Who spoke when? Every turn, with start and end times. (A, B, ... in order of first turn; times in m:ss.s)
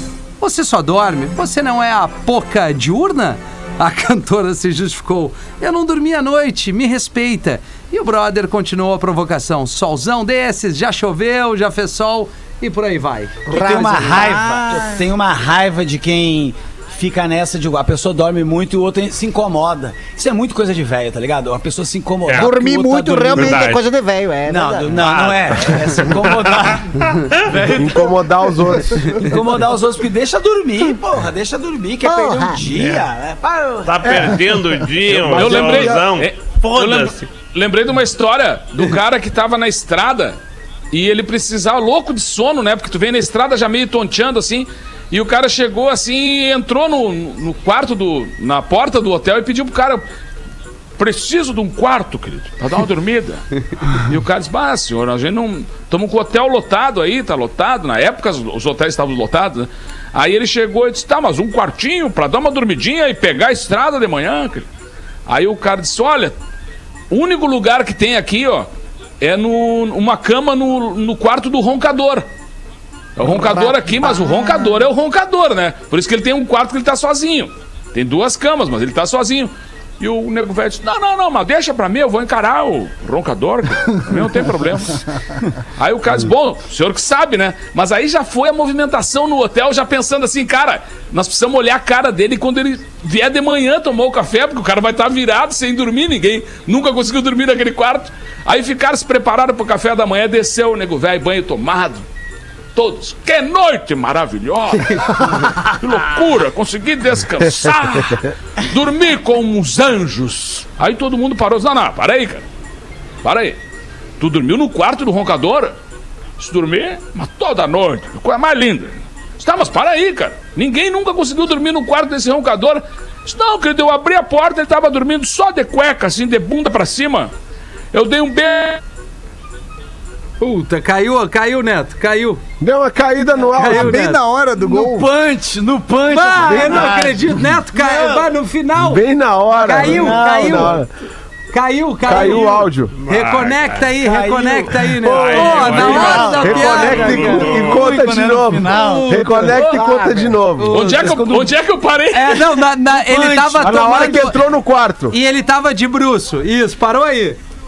0:00.4-0:14.2 A
0:13.5-0:15.0 B
0:13.5-0:23.7 C
0:22.3-0:25.1 B
0:23.3-0:23.8 D
0:24.5-0:28.2 C
0:24.9-0:26.7 D
0:27.6-0:29.4 E
0:29.0-0:34.5 C
0:32.0-0:32.6 B
0:32.8-0:33.0 D
0:33.8-0:37.3 D
0:34.0-0:34.4 E
0:35.0-0:36.1 E
0:35.3-0:40.4 F
0:40.9-0:50.0 F
0:51.0-1:04.6 F
1:05.3-1:06.3 F
1:07.1-1:08.7 F
1:09.2-1:12.2 F
1:13.2-1:25.1 F
1:14.1-1:14.8 B
1:25.8-1:42.0 F
1:42.7-1:52.4 F
1:53.2-1:53.6 F
1:54.2-1:55.7 F
1:56.4-2:07.3 F
2:07.9-2:08.8 F
2:10.4-2:12.4 A
2:12.6-2:14.0 E
2:13.6-2:14.2 A
2:13.7-2:15.1 B
2:14.6-2:18.3 C
2:16.1-2:20.8 A
2:16.5-2:16.9 E
2:18.8-2:20.9 E
2:19.8-2:20.8 C
2:21.5-2:27.5 A
2:22.0-2:22.9 E
2:23.0-2:23.8 D
2:24.0-2:29.2 C
2:25.0-2:27.9 D
2:25.8-2:30.8 E
2:28.6-2:29.8 A
2:29.8-2:30.2 B
2:30.6-2:31.1 A
2:30.7-2:32.6 F
2:30.9-2:31.6 C
2:32.1-2:34.4 A
2:32.8-2:34.4 C
2:33.6-2:35.1 E
2:35.1-2:37.4 A